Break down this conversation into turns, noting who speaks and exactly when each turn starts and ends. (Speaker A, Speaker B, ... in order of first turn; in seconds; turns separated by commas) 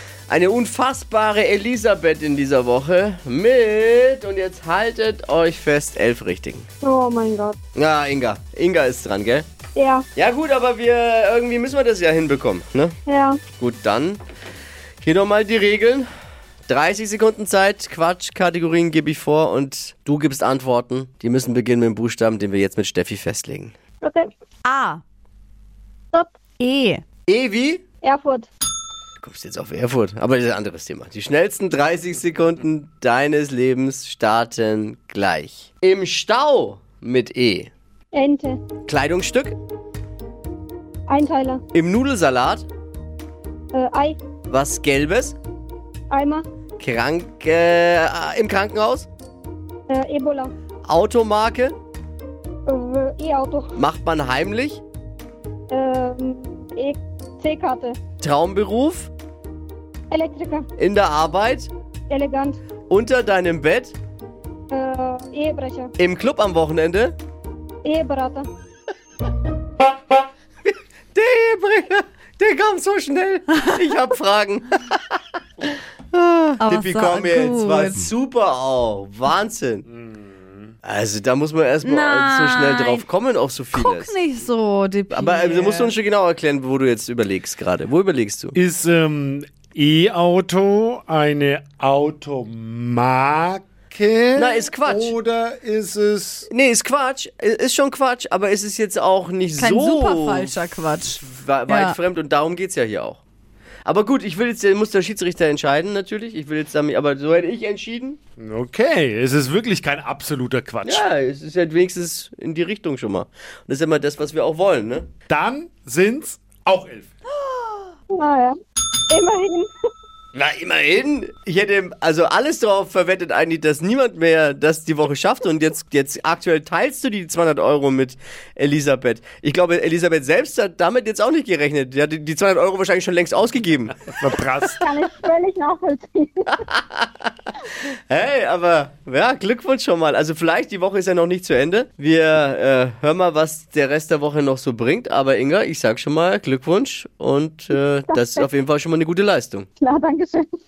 Speaker A: 0.3-6.7, Speaker B: 6.8-7.6, Speaker A: 7.8-9.4, Speaker B: 9.8-10.0, Speaker A: 10.2-12.9, Speaker B: 13.1-13.4, Speaker A: 13.6-14.2, Speaker A: 15.0-16.1, Speaker A: 16.7-23.7, Speaker C: 24.6-25.0, Speaker C: 26.6-27.0, Speaker A: 27.3-27.8, Speaker B: 28.0-28.5, Speaker A: 29.2-37.7, Speaker B: 38.1-38.6, Speaker A: 38.9-39.5, Speaker B: 41.1-41.6, Speaker A: 41.7-42.6, Speaker B: 43.7-44.2, Speaker A: 44.5-45.4, Speaker B: 46.1-46.4, Speaker A: 46.8-49.1, Speaker B: 49.9-50.5, Speaker A: 50.9-51.7, Speaker B: 52.7-53.7, Speaker A: 53.8-54.8, Speaker B: 55.7-57.9, Speaker A: 58.2-59.1, Speaker B: 60.1-60.6, Speaker A: 60.8-61.7, Speaker B: 62.1-62.6, Speaker A: 62.9-63.9, Speaker B: 64.7-65.9, Speaker A: 66.0-67.1, Speaker B: 67.9-68.5, Speaker A: 70.6-75.0, Speaker A: 76.1-79.8, Speaker C: 76.6-78.0, Speaker A: 80.8-84.2, Speaker C: 81.8-83.0, Speaker C: 83.7-85.9, Speaker A: 85.1-88.5, Speaker D: 88.5-96.5, Speaker A: 94.3-95.1, Speaker A: 96.5-100.6, Speaker C: 99.6-102.0, Speaker A: 101.1-103.2, Speaker A: 103.8-108.2, Speaker D: 108.4-111.0, Speaker A: 110.8-115.1, Speaker D: 115.3-117.1, Speaker B: 118.1-118.6, Speaker B: 119.1-119.7, Speaker A: 120.3-134.0, Speaker D: 134.1-134.8, Speaker B: 134.8-136.3, Speaker A: 136.5-137.1, Speaker A: 138.1-149.7, Speaker B: 148.1-148.4, Speaker B: 149.8-150.4